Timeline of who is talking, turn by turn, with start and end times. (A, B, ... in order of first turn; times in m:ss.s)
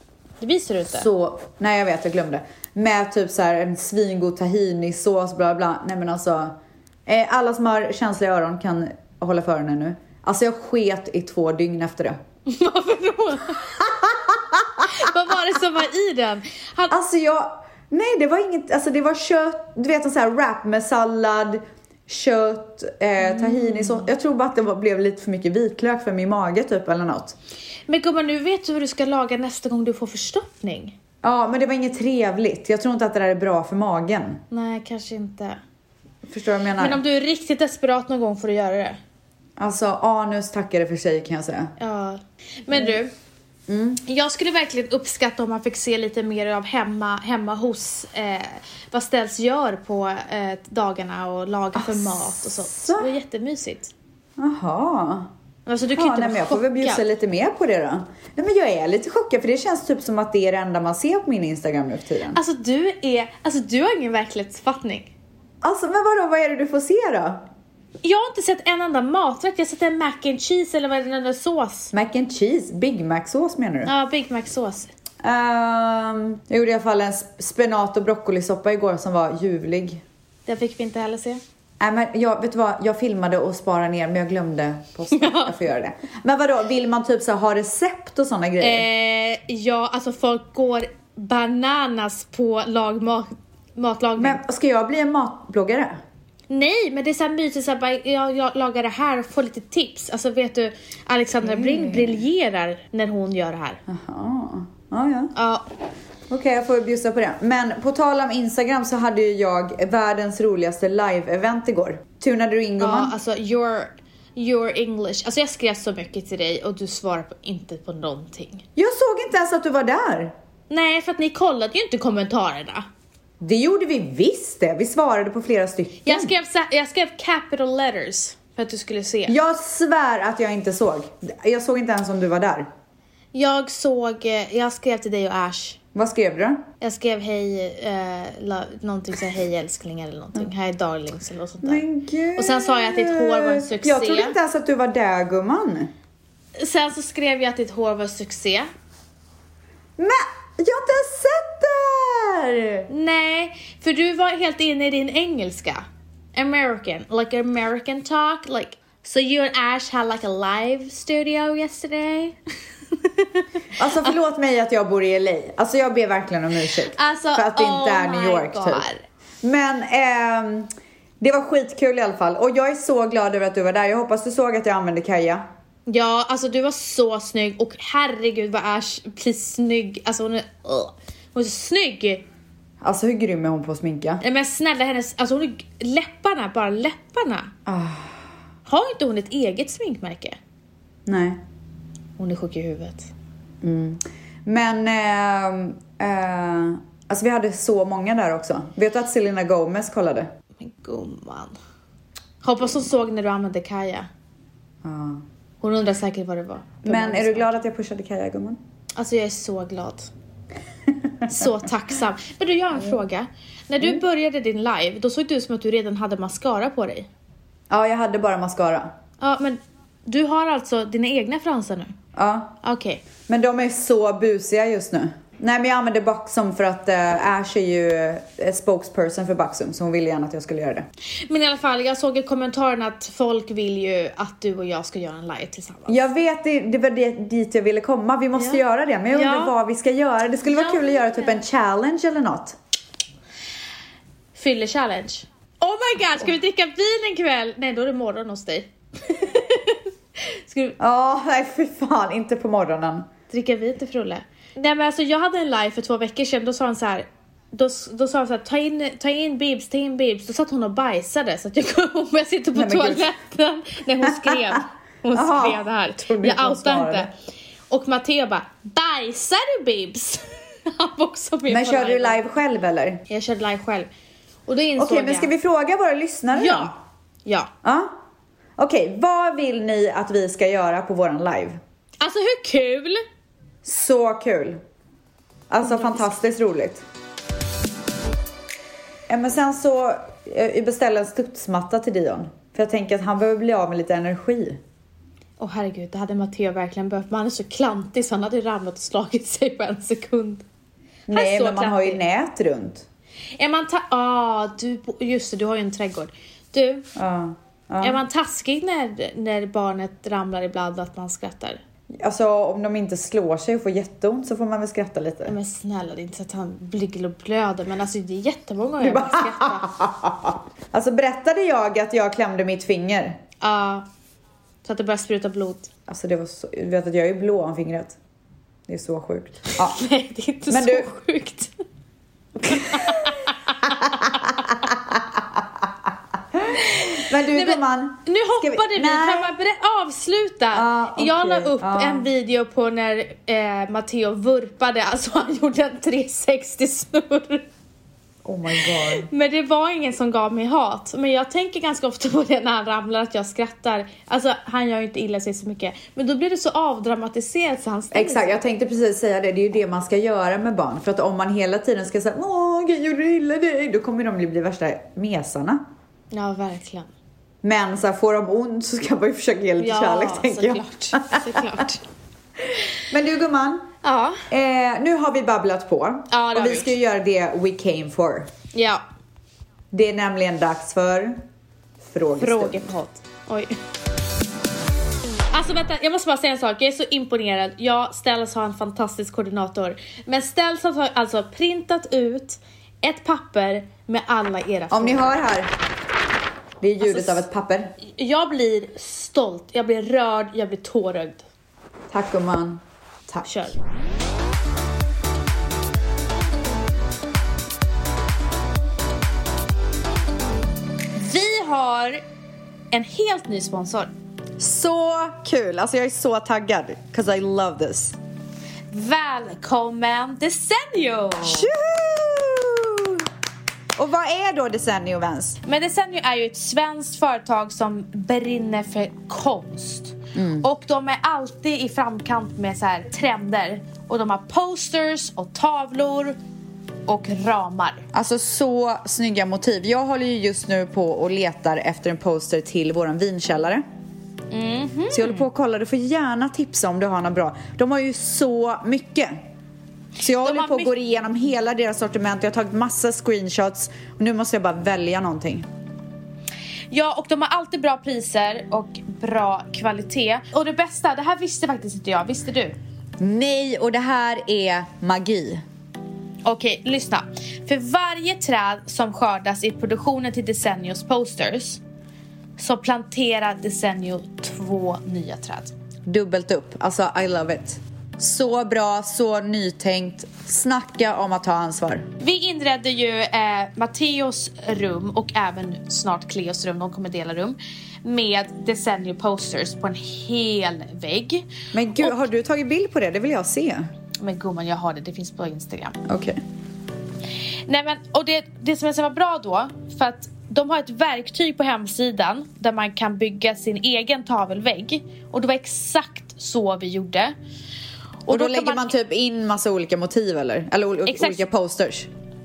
0:00.4-0:01.1 A
0:00.9-0:12.2 B
0:12.4-0:13.7 A
0:13.8-0:14.9 B
0:14.9-0:16.9 A
0:16.9-0:27.4 B
0:23.2-0:24.1 A
0:27.9-0:31.0 A
0:31.2-0:34.4 B
0:34.5-0:35.6 A
0:36.3-0:37.0 B
0:36.8-0:39.0 A
0:39.6-0:41.7 B
0:41.8-0:43.1 A
0:43.7-0:44.0 B
0:44.0-0:53.9 A
0:51.7-0:53.1 B
0:54.4-0:55.3 B
0:55.6-0:57.0 A
0:55.9-1:02.4 B
1:02.3-1:05.1 A
1:05.6-1:07.4 B
1:08.0-1:11.9 A
1:11.9-1:13.9 B
1:13.8-1:14.9 A
1:15.2-1:20.0 B
1:20.4-1:21.4 A
1:21.8-1:28.8 B
1:25.1-1:25.6 A
1:28.6-1:34.4 A
1:34.2-1:36.0 B
1:36.5-1:43.8 A
1:41.4-1:42.2 B
1:43.9-1:45.3 B
1:45.3-1:45.7 A
1:46.3-1:53.1 B
1:52.8-1:58.6 A
1:58.8-2:00.3 B
2:00.7-2:02.8 A
2:03.4-2:06.3 B
2:06.0-2:09.3 A
2:09.3-2:12.7 B
2:13.3-2:15.8 A
2:15.9-2:16.6 B
2:16.8-2:21.8 A
2:21.6-2:25.9 B
2:22.4-2:24.4 A
2:26.6-2:28.7 A
2:30.0-2:32.9 B
2:32.9-2:42.4 A
2:42.9-2:43.4 A
2:43.8-2:48.8 B
2:46.8-2:49.0 A
2:49.4-2:55.4 B
2:55.9-3:02.3 A
3:02.8-3:04.2 B
3:04.2-3:07.5 A
3:07.6-3:08.2 B
3:08.6-3:10.4 A
3:11.0-3:11.4 B
3:12.2-3:13.1 A
3:13.6-3:20.3 B
3:20.6-3:21.6 A
3:22.4-3:24.1 A
3:24.8-3:25.2 B
3:25.6-3:27.6 A
3:26.8-3:28.6 B
3:29.0-3:30.1 A
3:31.3-3:37.1 A
3:37.7-3:38.9 B
3:39.2-3:41.9 A
3:42.2-3:42.6 B
3:42.6-3:43.0 A
3:43.3-3:50.8 B
3:51.3-3:56.0 A
3:55.9-4:02.6 B
3:58.4-3:59.5 A
4:00.4-4:01.4 A
4:04.3-4:10.8 A
4:10.8-4:13.1 B
4:13.3-4:27.1 A
4:22.5-4:23.1 B
4:24.2-4:24.6 B
4:25.1-4:27.1 B
4:27.7-4:32.2 A
4:31.5-4:33.0 B
4:33.1-4:33.9 A
4:34.5-4:35.3 A
4:34.8-4:36.7 B
4:36.3-4:36.7 A
4:37.2-4:37.5 A
4:37.6-4:37.9 B
4:38.6-4:41.6 B
4:42.0-4:43.0 A
4:43.6-4:44.6 B
4:45.5-4:46.8 B
4:45.6-4:46.1 A
4:49.1-4:54.6 B
4:55.4-5:00.4 A
5:01.1-5:02.8 B
5:01.1-5:02.0 A
5:03.4-5:06.9 A
5:07.0-5:08.0 B
5:07.8-5:11.6 A
5:11.9-5:15.3 B
5:15.2-5:19.6 A
5:18.8-5:23.2 B
5:23.4-5:23.8 A
5:24.6-5:25.7 A
5:25.9-5:28.0 B
5:28.7-5:29.8 B
5:29.6-5:31.5 A
5:30.5-5:30.9 B
5:32.5-5:34.2 A
5:32.5-5:33.2 B
5:33.7-5:35.4 B
5:36.3-5:39.3 B
5:37.2-5:47.5 A
5:40.5-5:42.1 B
5:48.2-5:49.1 B
5:48.7-5:58.4 A
5:57.9-6:05.6 B
6:06.1-6:06.9 A
6:07.4-6:11.6 B
6:09.6-6:11.8 A
6:12.8-6:13.7 B
6:13.8-6:14.2 A
6:14.3-6:18.3 B
6:16.1-6:16.7 A
6:18.5-6:18.8 A
6:19.7-6:21.2 B
6:21.8-6:22.6 B
6:22.2-6:23.6 A
6:25.3-6:35.2 A
6:34.7-6:35.5 B
6:36.6-6:37.7 B
6:36.8-6:37.2 A
6:37.8-6:41.2 A
6:41.9-6:43.3 B
6:43.2-6:43.6 A
6:51.0-6:52.0 A
6:52.7-6:53.9 A
6:54.4-6:58.0 B
6:58.7-7:01.5 A
7:01.2-7:03.0 B
7:03.8-7:05.4 B
7:05.4-7:16.2 A
7:10.1-7:10.4 B
7:16.8-7:17.8 A
7:17.9-7:23.6 B
7:24.3-7:25.2 A
7:24.9-7:29.2 B
7:30.0-7:35.4 B
7:30.1-7:30.7 A
7:36.7-7:42.6 A
7:43.0-7:45.4 B
7:46.2-7:51.6 A
7:52.4-7:55.5 A
7:55.8-8:01.9 B
8:02.0-8:11.3 A
8:11.5-8:13.7 B
8:14.0-8:15.8 A
8:15.8-8:16.2 B
8:17.5-8:27.1 A
8:28.0-8:28.7 A
8:28.1-8:31.9 B
8:30.8-8:31.2 A